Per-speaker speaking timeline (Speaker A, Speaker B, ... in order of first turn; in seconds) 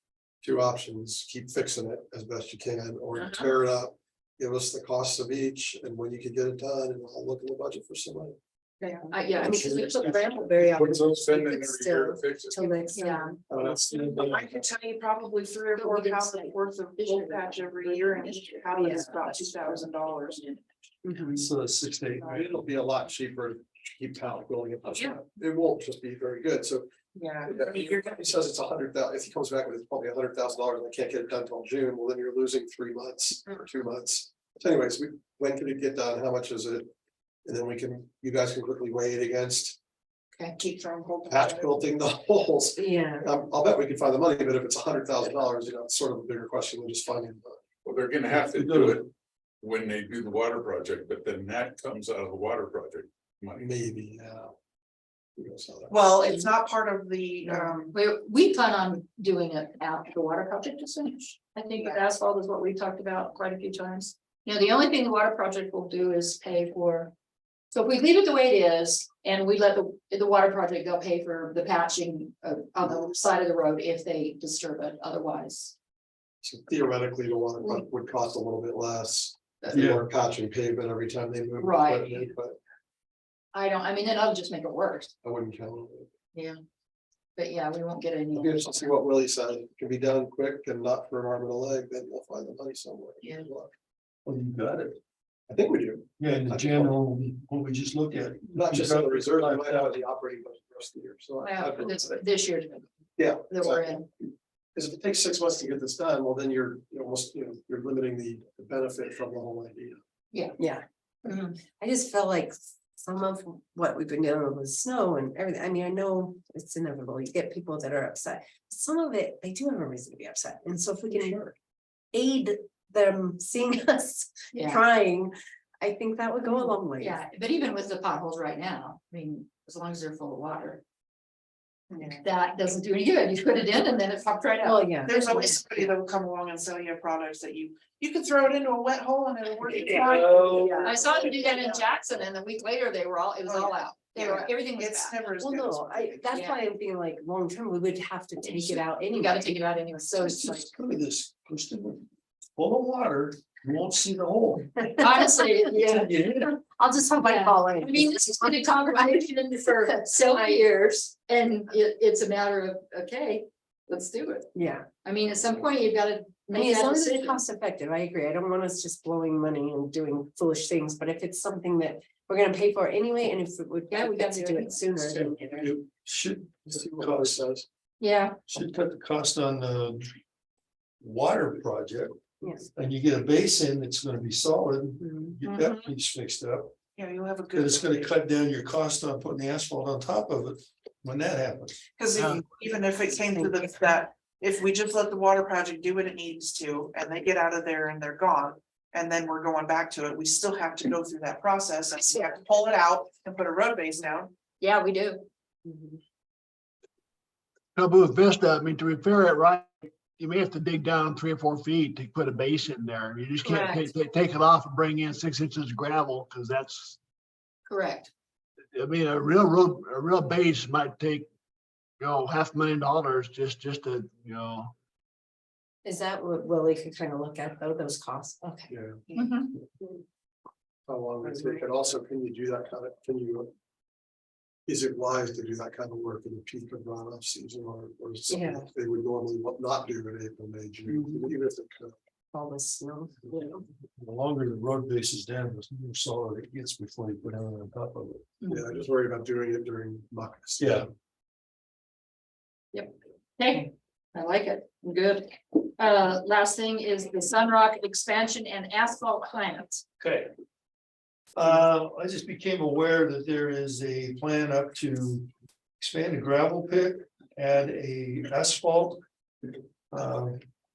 Speaker A: 0.4-8.3, 13.5-13.9, 22.2-26.9, 27.4-36.9, 37.4-39.8, 41.3-47.6, 53.5-54.5, 55.4-56.0, 76.4-82.6, 85.2-86.1, 88.3-93.7, 95.5-96.9, 98.5-102.2, 103.2-104.0, 104.7-110.0, 176.7-177.7, 228.7-229.0, 230.9-233.5, 234.7-241.9, 248.5-250.9
Speaker B: 3.1-3.5, 8.8-10.9, 12.9-13.4, 15.8-20.6, 57.4-67.1, 67.7-75.7, 81.6-82.3, 83.5-85.1, 87.4-88.9, 93.2-93.5, 101.4-104.1, 111.2-111.6, 124.5-124.8, 126.4-130.8, 132.1-135.2, 140.0-145.2, 146.3-146.6, 148.4-150.7, 155.0-164.5, 165.0-167.4, 173.9-175.0, 178.0-178.4, 185.4-185.8, 202.0-202.4, 204.6-205.2, 213.4-213.9, 217.7-218.1, 229.1-229.5, 248.4-248.7, 252.7-259.8
Speaker C: 9.4-13.4, 18.8-19.1, 21.0-21.4, 42.8-43.2, 110.6-110.8, 111.6-121.5, 122.1-127.2, 134.6-135.6, 145.4-149.5, 155.0-155.3, 156.9-158.7, 160.2-160.7, 164.5-164.9, 166.5-175.7, 185.0-185.3, 225.8-229.3, 231.2-231.6, 238.3-238.6, 240.9-241.2, 242.3-243.6
Speaker D: 9.4-10.1, 10.8-11.2, 13.5-14.6, 21.1-22.4, 48.4-49.1, 79.7-80.0, 94.2-95.0, 96.2-100.0, 140.0-140.5, 150.2-154.9, 155.7-156.5, 175.3-177.4, 178.5-180.0, 181.0-186.7, 187.5-191.8, 244.0-248.2, 250.6-250.8, 260.0-260.3, 261.3-265.3, 265.8-269.0, 269.9-270.4
Speaker E: 10.7-12.6, 47.8-49.1, 49.6-53.7
Speaker F: 13.8-20.4, 27.1-28.1, 40.5-41.8, 55.9-57.9, 131.9-132.2, 135.0-141.8, 143.4-146.3, 186.9-188.1, 192.0-204.3
Speaker G: 192.2-192.4, 207.7-217.0, 218.7-221.3, 222.0-224.7